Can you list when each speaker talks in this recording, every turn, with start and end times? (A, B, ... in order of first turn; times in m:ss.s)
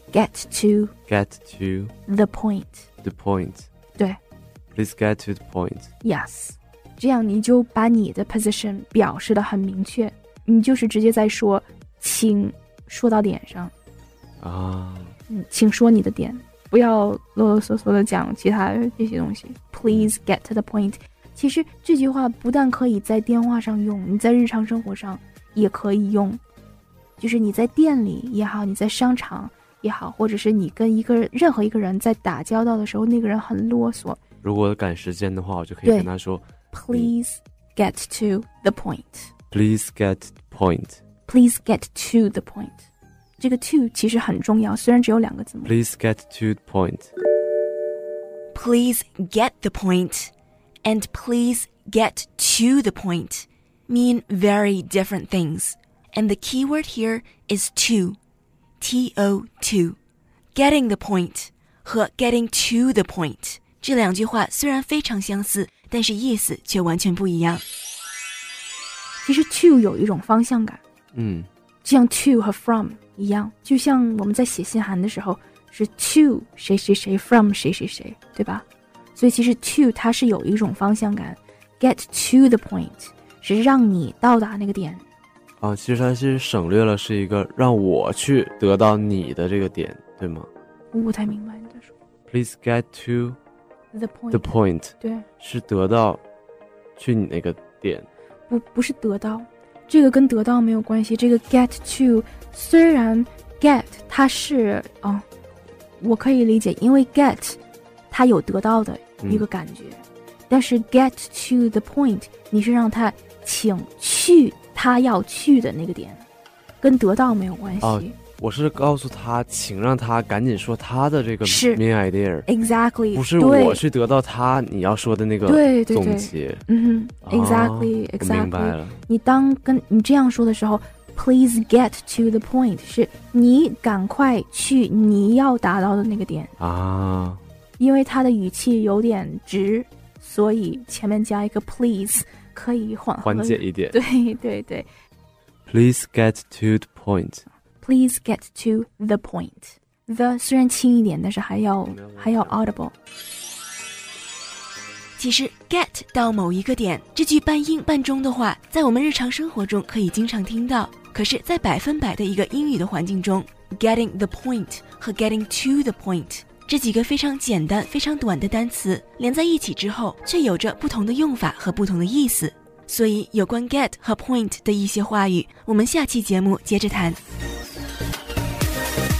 0:00.1-0:00.9 A
0:01.1-0:01.9 B
0:02.1-0:02.9 A
0:03.0-0:03.7 B
0:04.7-0:05.9 B
0:06.0-0:13.7 A
0:14.4-0:15.1 B
0:15.3-0:26.4 A
0:27.2-0:34.2 A
0:34.4-0:37.1 B
0:35.8-0:36.1 A
0:36.7-0:39.3 A
0:39.5-0:41.0 B
0:41.2-0:42.8 A
0:43.4-0:45.8 A
0:45.6-0:47.1 B
0:48.5-0:50.3 C
0:50.8-0:58.2 C
0:58.8-1:00.0 C
1:00.5-1:07.6 C
1:09.2-1:10.8 A
1:11.1-1:11.5 B
1:11.8-1:25.0 A
1:25.6-1:30.5 B
1:30.9-1:31.9 A
1:32.3-1:33.4 B
1:33.9-1:35.2 A
1:34.3-1:36.2 B
1:37.0-1:38.1 B
1:38.5-1:45.2 A
1:46.0-1:47.6 A
1:48.1-1:56.2 A
1:56.8-1:58.1 A
1:57.8-2:02.5 B
2:01.4-2:01.8 A
2:02.4-2:03.8 A
2:03.1-2:06.6 B
2:05.4-2:16.5 A
2:07.2-2:09.0 B
2:16.6-2:17.4 B
2:17.8-2:24.9 A
2:23.2-2:24.0 B
2:25.7-2:27.4 B
2:27.8-2:32.9 A
2:31.9-2:32.6 B
2:35.2-2:57.2 C